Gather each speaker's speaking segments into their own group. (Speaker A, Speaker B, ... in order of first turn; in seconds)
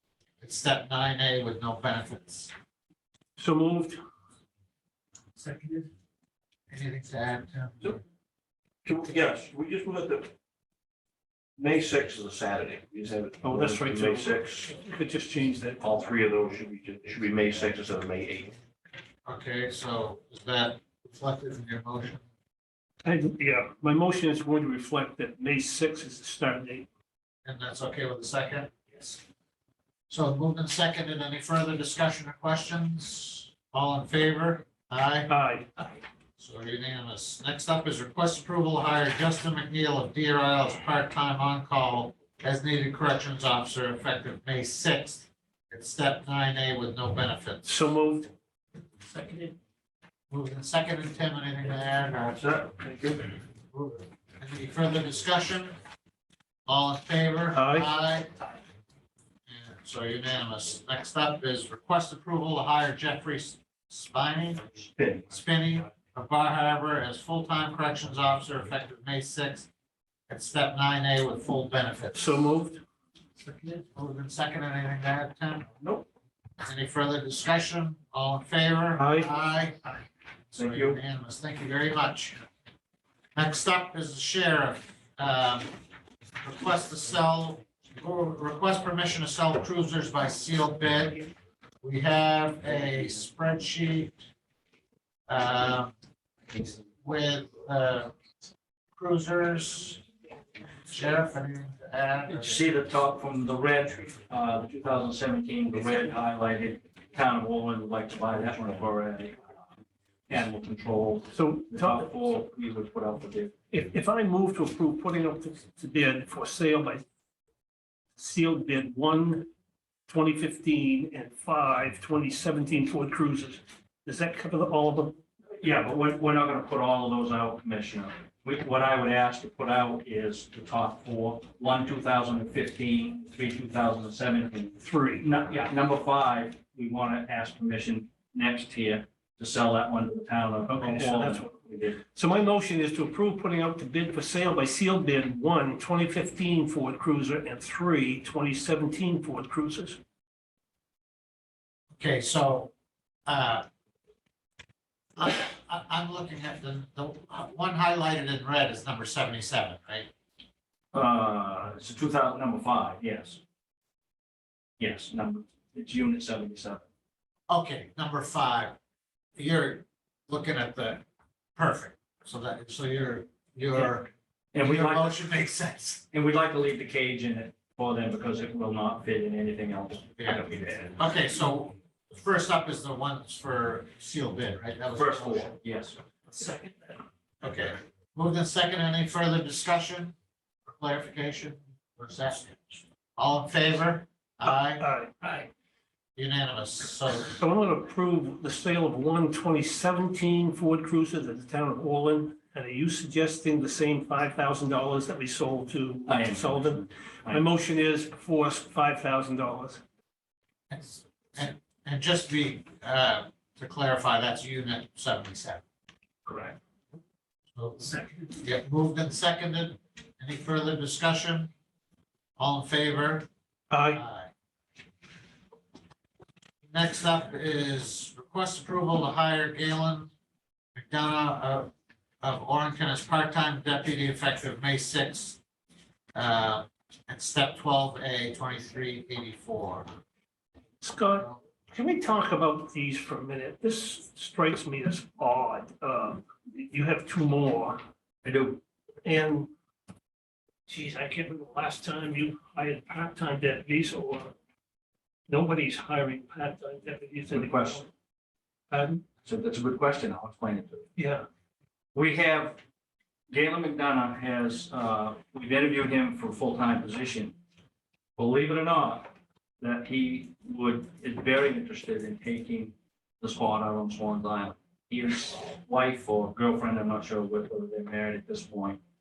Speaker A: 0.4-2.5, 6.7-8.0, 19.2-22.2, 27.4-29.1, 30.1-35.3, 36.4-47.7, 50.3-52.5, 53.7-55.8, 56.6-58.4, 59.5-69.7, 70.3-72.5, 73.6-75.7, 76.6-79.9, 80.5-82.4, 83.3-85.7, 86.4-91.3, 91.8-94.2, 95.3-95.9, 96.6-98.1, 99.0-100.0, 100.9-102.6, 152.0-152.7, 153.2-153.7, 155.2-160.1, 167.5-168.8, 169.3-171.0, 171.6-176.1, 180.2-185.5, 187.4-190.1, 190.7-194.8, 196.2-197.4, 210.7-215.6, 217.6-221.5, 222.4-223.3, 223.9-224.3, 226.7-230.1, 230.7-231.7, 232.2-235.4, 236.1-239.8
Speaker B: 3.4-4.0, 5.4-5.8, 13.4-15.9, 23.0-26.9, 35.3-35.7, 47.6-48.3, 57.5-57.9, 72.1-72.8, 79.0-79.3, 111.3-112.2, 113.7-117.0, 118.2-119.5, 120.1-125.2, 134.8-135.2, 140.8-150.0, 186.3-186.7, 194.7-195.5, 197.4-209.8, 223.7-224.0, 240.8-247.8, 249.0-249.5, 250.7-254.3, 255.3-257.9, 258.7-259.0, 261.0-261.2
Speaker C: 8.8-10.3, 11.6-14.7, 15.8-18.6, 52.3-53.3
Speaker D: 65.0-65.2, 80.5-81.0, 102.3-109.5, 110.3-113.5, 125.6-142.0, 160.9-163.4, 164.8-166.8, 174.5-175.2, 176.1-180.9, 184.9-186.0, 206.1-207.4, 216.2-216.6, 248.2-248.6, 257.3-257.8, 259.2-260.9, 261.9-262.6, 263.3-267.4, 268.1-278.8